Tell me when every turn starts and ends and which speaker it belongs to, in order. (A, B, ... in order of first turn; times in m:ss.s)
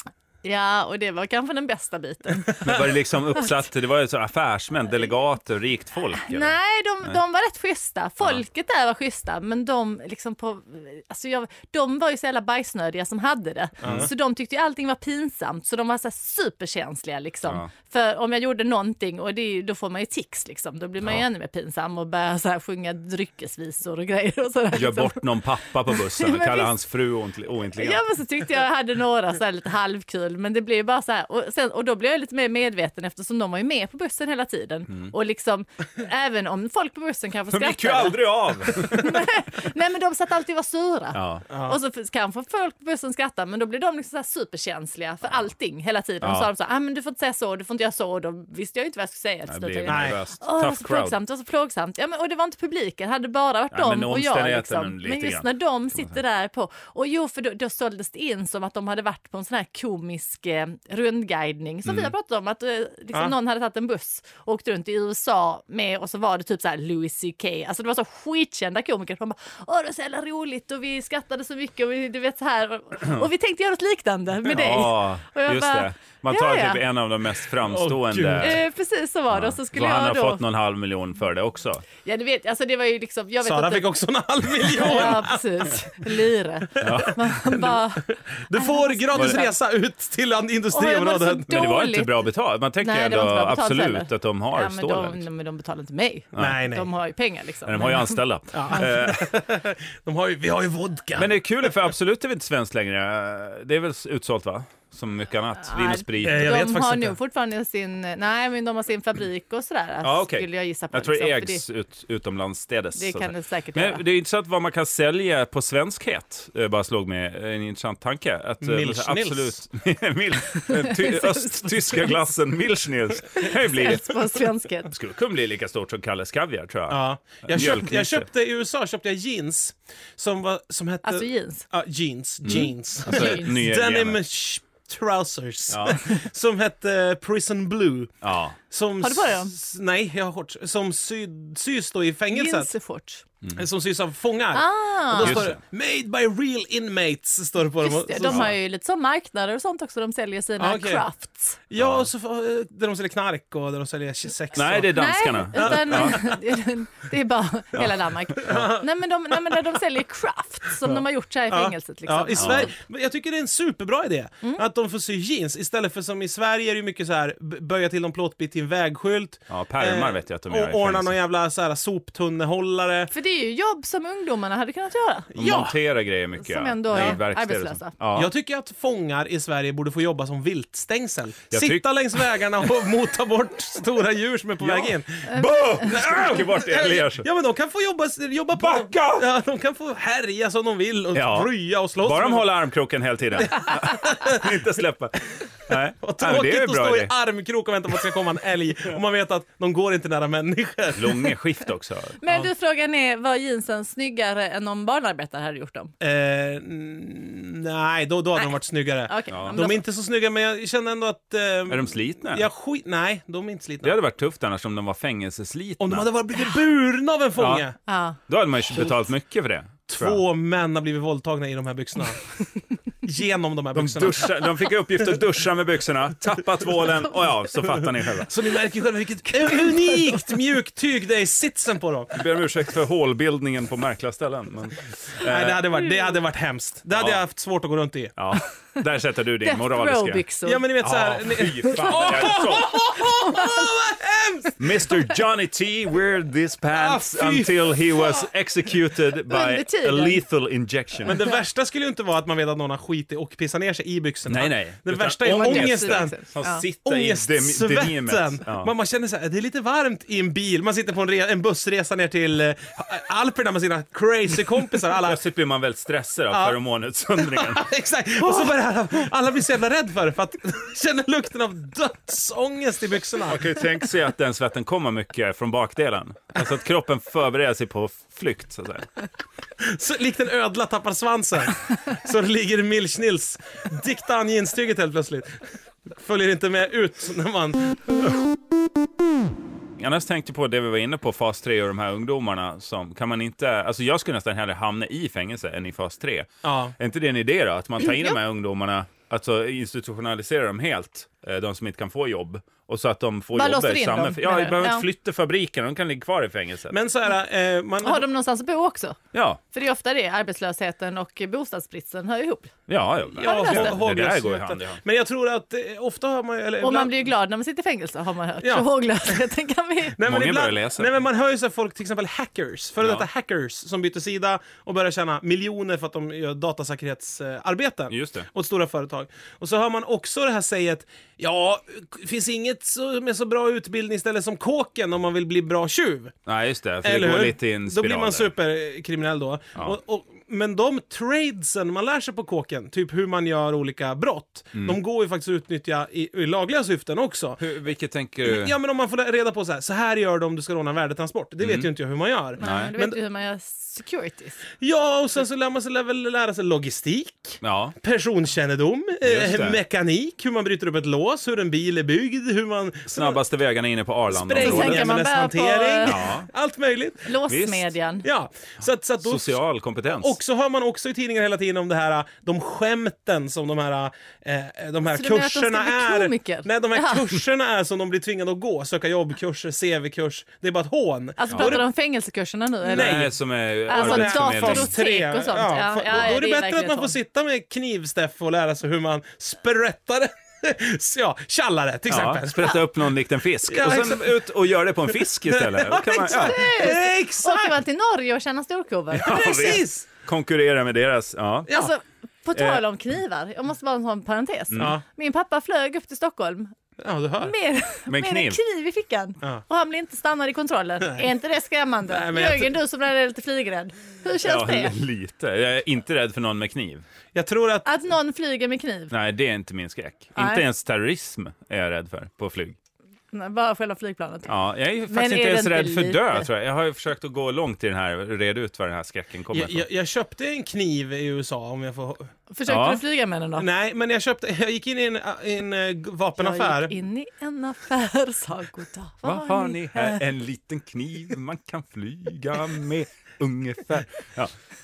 0:00.4-0:02.9 A
0:02.6-0:07.2 B
0:06.2-0:25.3 A
0:13.8-0:14.1 C
0:24.7-0:28.0 B
0:25.9-0:26.8 A
0:27.8-1:16.8 A
0:37.5-0:39.3 B
0:41.1-0:41.4 B
0:41.5-0:41.8 C
0:46.2-0:46.5 B
0:49.5-0:51.2 B
0:49.9-0:50.2 C
0:53.7-0:56.1 B
1:01.9-1:02.1 B
1:14.4-1:18.6 B
1:17.6-1:18.6 C
1:18.4-1:20.4 A
1:19.3-1:21.9 B
1:22.0-1:23.9 A
1:23.4-1:25.8 C
1:24.6-1:29.6 A
1:26.8-1:31.6 C
1:26.8-1:27.2 B
1:29.1-1:29.4 B
1:30.7-1:32.2 A
1:31.5-1:35.2 B
1:32.8-1:38.2 A
1:36.4-1:36.6 B
1:36.4-1:36.9 C
1:37.6-1:39.3 B
1:38.5-1:41.8 C
1:41.2-1:46.6 B
1:45.7-1:51.6 A
1:46.2-1:47.2 C
1:50.0-2:04.2 B
1:53.0-1:54.0 A
1:58.6-1:59.6 C
2:00.7-2:02.1 A
2:03.4-2:04.9 A
2:04.9-2:08.3 B
2:06.9-2:18.1 C
2:11.0-2:11.6 A
2:12.4-2:14.2 B
2:12.4-2:13.5 A
2:15.7-2:16.0 B
2:18.2-2:18.6 B
2:18.7-2:22.7 C
2:19.0-2:19.5 A
2:22.3-2:23.2 A
2:23.6-2:28.5 C
2:24.5-2:25.5 A
2:25.2-2:25.6 B
2:27.8-2:31.6 A
2:30.6-2:31.1 C
2:31.7-2:36.4 C
2:31.8-2:32.1 B
2:34.5-2:36.2 B
2:34.9-2:42.7 A
2:37.8-2:38.6 B
2:38.4-2:39.6 C
2:40.8-2:53.1 C
2:42.4-2:42.7 B
2:49.5-2:51.1 B
2:53.1-2:55.4 A
2:55.3-2:55.8 C
2:55.4-2:58.3 B
2:56.4-2:57.9 A
2:56.9-2:57.2 C
2:58.1-3:12.5 C
3:01.5-3:01.8 B
3:04.6-3:07.3 B
3:05.3-3:05.9 A
3:08.6-3:09.3 B
3:11.1-3:17.1 B
3:13.5-3:14.6 C
3:16.0-3:21.4 C
3:20.9-3:22.2 B
3:22.2-3:25.9 A
3:26.0-3:34.0 C
3:28.4-3:29.8 A
3:29.3-3:29.6 B
3:31.7-3:32.5 B
3:33.8-3:36.1 B
3:35.8-3:37.8 C
3:37.4-3:37.6 B
3:37.9-3:38.2 A
3:38.3-3:40.2 B
3:39.9-3:42.4 C
3:43.0-3:44.5 C
3:43.8-3:48.3 B
3:47.8-3:52.2 C
3:52.1-3:55.6 B
3:55.2-3:58.1 C
3:56.9-3:57.2 B
3:58.2-4:00.2 B
3:59.4-4:00.6 A
4:00.4-4:04.9 C
4:00.8-4:03.1 B
4:04.6-4:11.2 B
4:06.7-4:08.2 C
4:09.3-4:10.2 A
4:11.1-4:16.2 C
4:14.3-4:18.7 B
4:15.3-4:16.6 A
4:16.8-4:25.2 C
4:25.0-4:27.6 B
4:26.3-4:26.6 C
4:27.2-4:33.5 C
4:33.2-4:38.9 B
4:39.6-4:48.2 C
4:49.8-5:06.8 B
4:56.4-4:56.8 C
5:03.4-5:04.8 A
5:06.7-5:08.0 C
5:07.8-5:09.0 A
5:09.1-5:09.4 B
5:09.5-5:12.6 A
5:12.7-5:14.8 B
5:13.1-5:16.9 C
5:13.2-5:13.8 A
5:16.6-5:20.0 A
5:18.4-5:18.7 C
5:20.0-5:36.1 C
5:20.0-5:20.9 B
5:22.8-5:23.1 B
5:27.9-5:28.3 B
5:36.3-5:38.3 B
5:36.8-5:47.4 C
5:47.4-5:48.6 B
5:48.2-5:53.0 C
5:51.4-5:51.7 B
5:52.4-5:54.4 A
5:52.4-5:52.7 B
5:54.6-6:03.2 C
5:57.4-5:57.8 B
5:59.0-5:59.6 B
6:02.9-6:04.9 B
6:04.1-6:07.1 C
6:04.4-6:06.1 A
6:05.8-6:06.3 B
6:07.0-6:08.0 A
6:07.3-6:07.7 B
6:08.0-6:21.6 C
6:09.0-6:10.2 B
6:14.9-6:17.1 A
6:21.2-6:23.1 A
6:21.3-6:21.6 B
6:22.7-6:23.1 C
6:22.7-6:24.7 B
6:23.7-6:26.9 A
6:23.7-6:32.6 C
6:31.9-6:36.5 B
6:33.4-6:34.2 C
6:35.2-6:37.6 C
6:35.8-6:39.6 A
6:38.9-6:41.5 B
6:39.0-6:39.9 C
6:41.5-6:46.5 A
6:42.4-6:42.6 B
6:46.8-6:47.3 C
6:47.2-6:54.8 A
6:47.9-6:48.4 B
6:51.9-6:52.6 C
6:54.2-6:56.8 B
6:57.1-6:57.7 C
6:57.6-6:58.9 A
6:58.9-7:02.6 B
7:00.2-7:00.4 A
7:03.1-7:04.4 A
7:04.3-7:09.6 B
7:04.9-7:06.3 A
7:09.3-7:12.1 C
7:12.3-7:13.5 A
7:12.5-7:12.8 B
7:13.4-7:16.8 C
7:16.2-7:20.0 A
7:19.0-7:24.3 B